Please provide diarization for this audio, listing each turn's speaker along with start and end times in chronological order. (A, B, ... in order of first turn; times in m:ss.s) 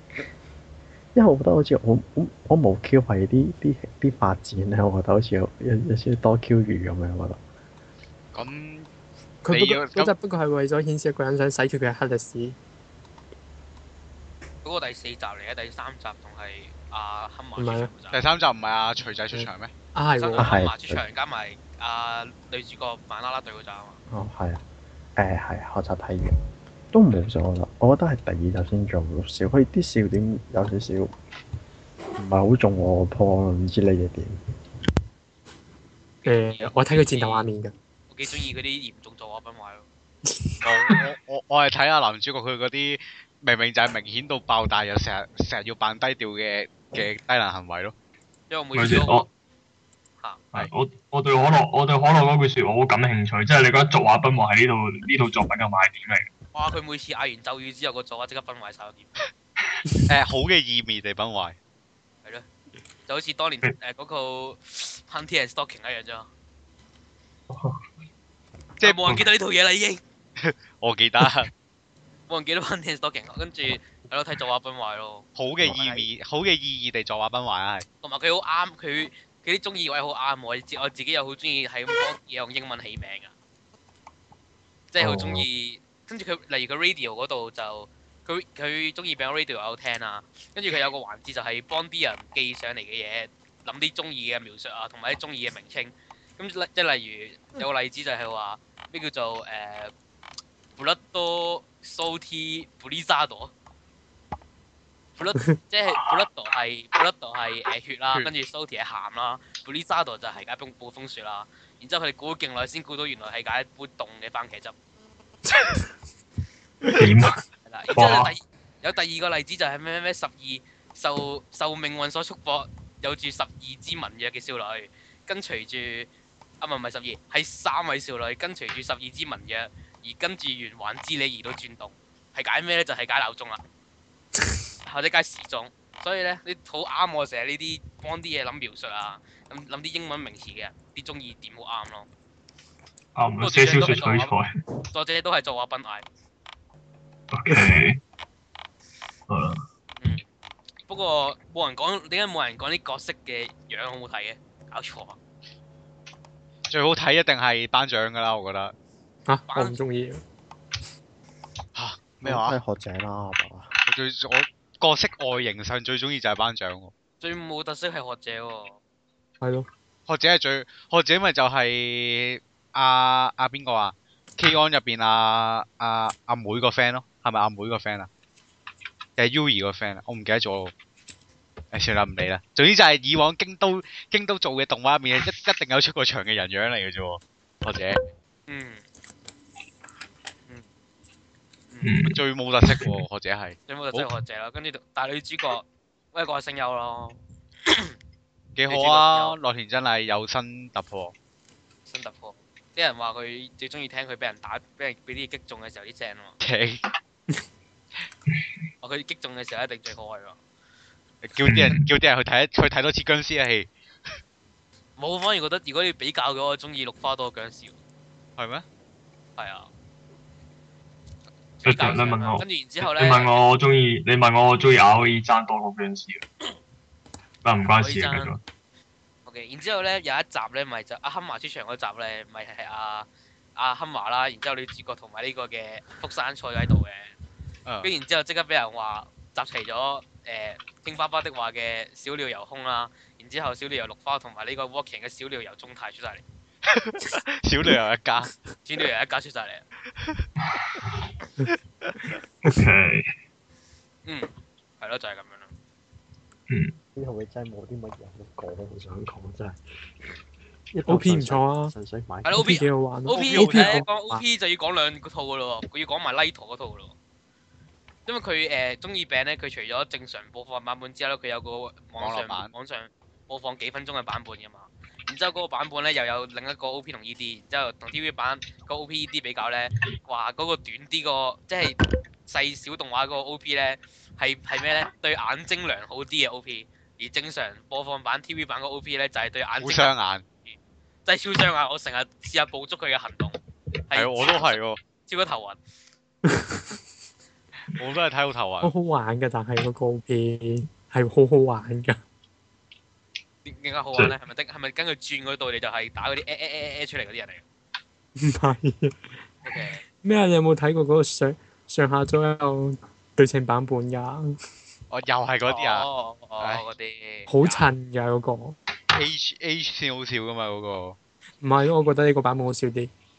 0:01.2-0:07.4 A
0:08.3-0:08.9 B
0:09.4-0:12.6 C
0:09.5-0:10.1 B
0:14.6-0:18.2 D
0:17.6-0:17.9 C
0:18.1-0:19.7 B
0:19.3-0:20.6 C
0:20.2-0:24.0 D
0:20.4-0:21.0 A
0:24.1-0:24.6 A
0:25.2-0:26.4 A
0:26.9-0:31.1 A
0:32.2-0:34.4 A
0:36.2-0:37.5 D
0:36.2-0:37.7 C
0:38.1-0:39.9 D
0:40.3-0:41.0 C
0:40.6-0:47.9 B
0:48.5-0:49.2 D
0:48.7-0:49.3 E
0:50.5-0:56.3 E
0:56.5-0:59.1 D
1:00.1-1:01.6 B
1:03.1-1:06.3 D
1:07.5-1:07.8 E
1:08.8-1:09.2 B
1:08.8-1:10.0 D
1:10.4-1:11.5 B
1:12.3-1:16.0 D
1:15.4-1:17.9 B
1:18.0-1:23.3 D
1:24.9-1:39.9 D
1:25.0-1:25.4 A
1:40.8-1:43.5 D
1:45.2-1:54.8 D
1:55.5-1:55.8 C
1:56.9-1:58.4 E
1:57.6-2:06.1 D
2:06.6-2:13.6 D
2:14.8-2:22.1 D
2:23.2-2:24.5 E
2:23.4-2:24.4 D
2:24.9-2:26.0 D
2:27.3-2:28.0 E
2:29.3-2:29.6 E
2:30.9-2:35.2 D
2:36.7-2:38.7 B
2:39.3-2:40.2 C
2:39.5-2:39.8 D
2:41.8-2:42.6 B
2:42.2-2:43.7 A
2:43.9-2:46.9 B
2:47.2-2:48.8 D
2:49.4-2:49.7 C
2:50.1-2:58.1 B
2:59.2-3:00.7 B
3:01.7-3:08.0 B
3:08.5-3:08.8 D
3:11.7-3:12.0 D
3:11.8-3:13.0 E
3:12.1-3:14.1 B
3:13.7-3:17.9 D
3:18.6-3:21.1 B
3:18.7-3:19.4 D
3:21.9-3:26.4 D
3:26.4-3:26.8 B
3:28.8-3:30.4 D
3:31.2-3:33.7 B
3:31.4-3:31.9 E
3:35.0-3:37.8 D
3:38.4-3:38.6 B
3:39.4-3:39.7 D
3:41.6-3:43.4 D
3:41.6-3:46.2 E
3:47.4-3:48.4 E
3:47.8-3:48.3 D
3:49.3-3:57.1 D
3:57.8-4:06.2 D
4:06.7-4:08.3 B
4:08.6-4:09.6 D
4:10.0-4:10.3 B
4:10.5-4:10.9 E
4:11.5-4:12.1 B
4:12.4-4:13.1 E
4:14.1-4:15.5 D
4:16.5-4:16.7 E
4:17.0-4:19.6 A
4:20.7-4:22.6 A
4:20.9-4:21.7 C
4:22.2-4:26.9 D
4:22.3-4:23.9 C
4:23.1-4:23.7 B
4:28.1-4:49.9 D
4:32.0-4:32.5 B
4:49.6-4:50.2 B
4:50.5-4:53.4 D
4:53.9-4:55.6 D
4:53.9-4:54.8 B
4:56.3-4:56.6 C
4:57.8-4:58.7 B
4:58.6-5:02.0 C
5:03.4-5:07.4 D
5:08.2-5:09.0 C
5:09.4-5:09.8 D
5:10.0-5:14.4 C
5:14.9-5:15.9 B
5:15.5-5:17.7 D
5:17.3-5:18.6 C
5:18.9-5:21.0 B
5:21.4-5:22.9 C